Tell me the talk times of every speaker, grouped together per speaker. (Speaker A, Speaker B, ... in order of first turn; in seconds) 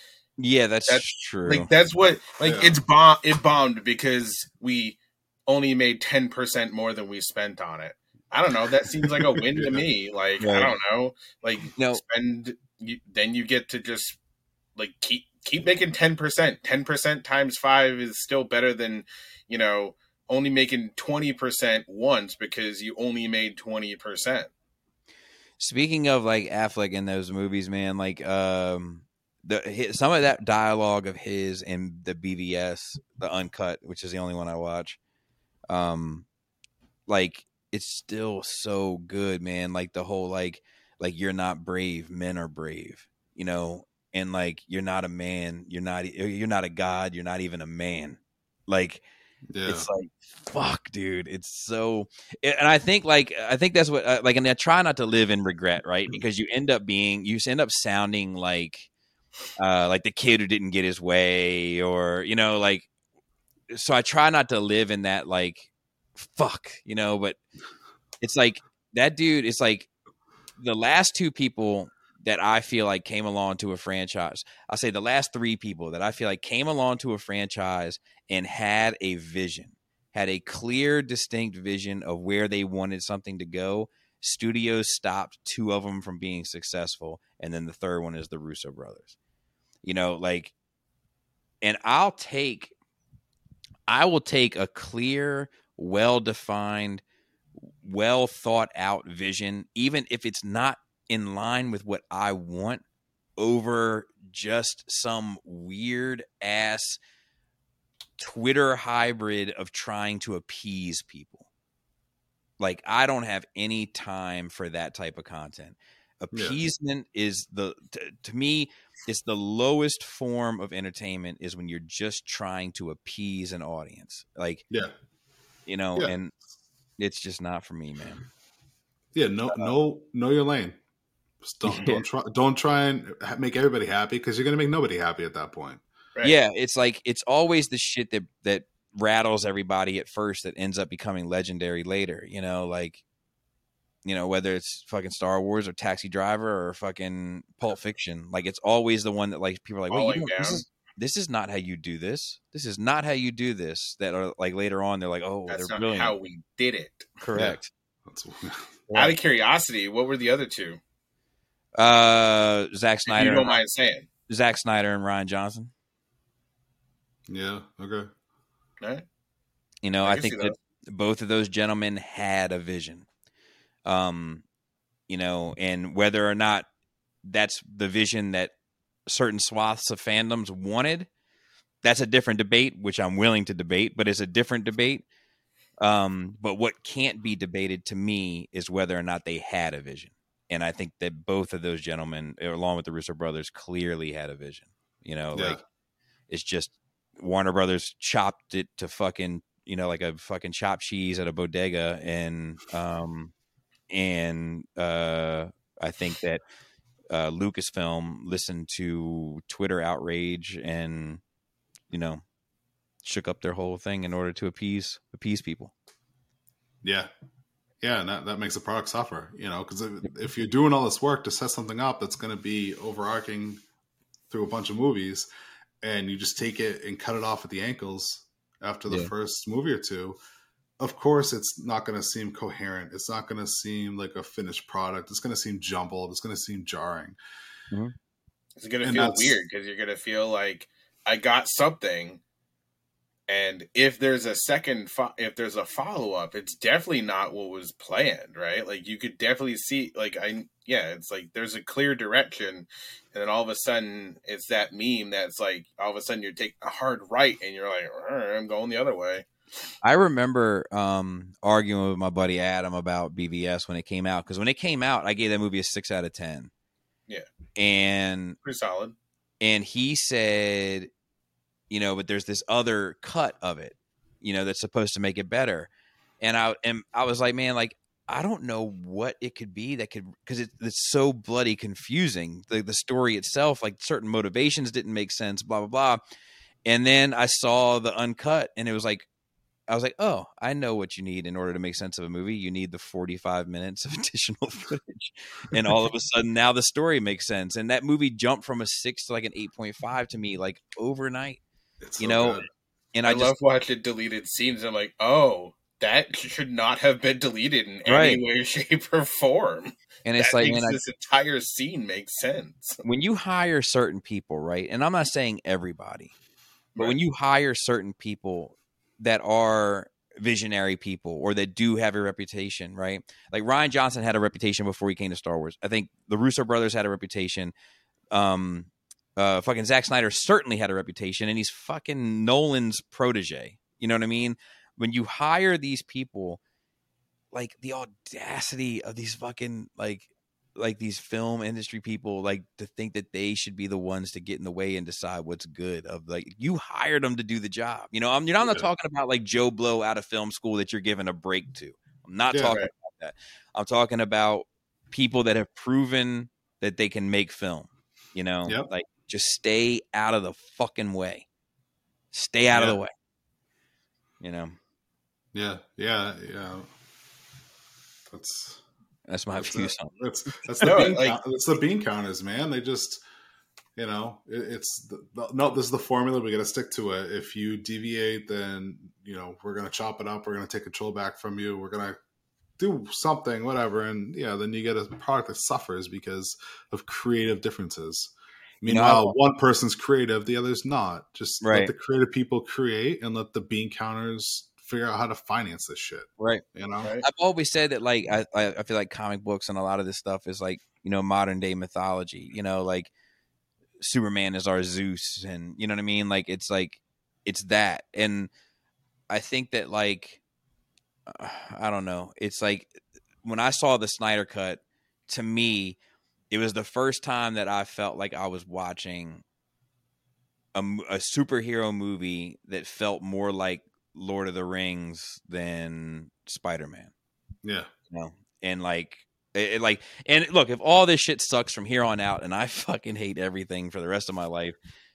Speaker A: 0.4-1.7, 10.4-10.7, 11.7-12.0, 25.6-35.0, 35.7-36.3, 37.1-49.0, 49.6-58.9, 59.6-62.9, 63.7-67.4, 68.2-69.9, 70.6-89.1, 89.8-90.5, 91.6-92.7, 93.9-97.0, 97.8-102.8, 103.4-107.0, 108.2-111.5, 112.6-124.6, 125.7-126.3, 127.0-128.2, 131.6-132.0, 136.2-143.0, 144.0-156.1, 157.2-157.7, 158.9-159.2, 161.8-163.6, 164.3-165.7, 169.8-173.1, 173.8-174.4, 175.1-176.7, 177.2-178.5, 179.1-181.1, 181.8-185.0, 185.8-195.6, 196.3-203.3, 203.9-206.4, 207.1-211.2, 211.9-212.2, 213.0-215.7, 259.8-266.5, 267.6-268.4, 269.4-270.9, 271.7-275.7, 276.2-286.0, 286.6-289.1, 289.7-301.4, 302.0-302.4, 302.9-303.3, 307.9-308.2, 310.0-310.8, 312.8-316.1, 316.8-327.5, 328.1-336.4, 337.3-361.2, 362.1-362.9, 364.2-364.6, 369.1-369.9, 370.6-370.9, 388.7-389.1, 391.4-391.7, 396.2-396.4, 397.0-402.9, 403.8-408.3, 409.1-410.2, 411.1-412.7, 413.2-415.8, 416.3-419.2, 420.5-426.9, 427.9-434.5
Speaker B: 0.9-14.2, 14.8-24.5, 149.9-150.6, 155.5-157.1, 158.9-160.8, 163.1-164.1, 170.0-170.5, 238.6-242.2, 243.3-259.2, 268.4-268.9, 303.0-312.8, 370.6-371.2
Speaker C: 2.4-2.8, 9.0-9.8, 49.5-49.9, 116.3-116.6, 129.1-130.8, 131.4-135.8, 157.3-158.7, 167.3-168.1, 195.3-195.6, 216.8-217.1, 217.8-223.6, 224.3-225.3, 225.8-230.2, 230.8-237.2, 238.8-239.4, 301.8-302.5, 348.4-348.6, 362.5-362.8, 365.3-366.7, 368.1-368.6, 369.4-373.0, 373.8-382.0, 382.6-396.9, 427.4-427.7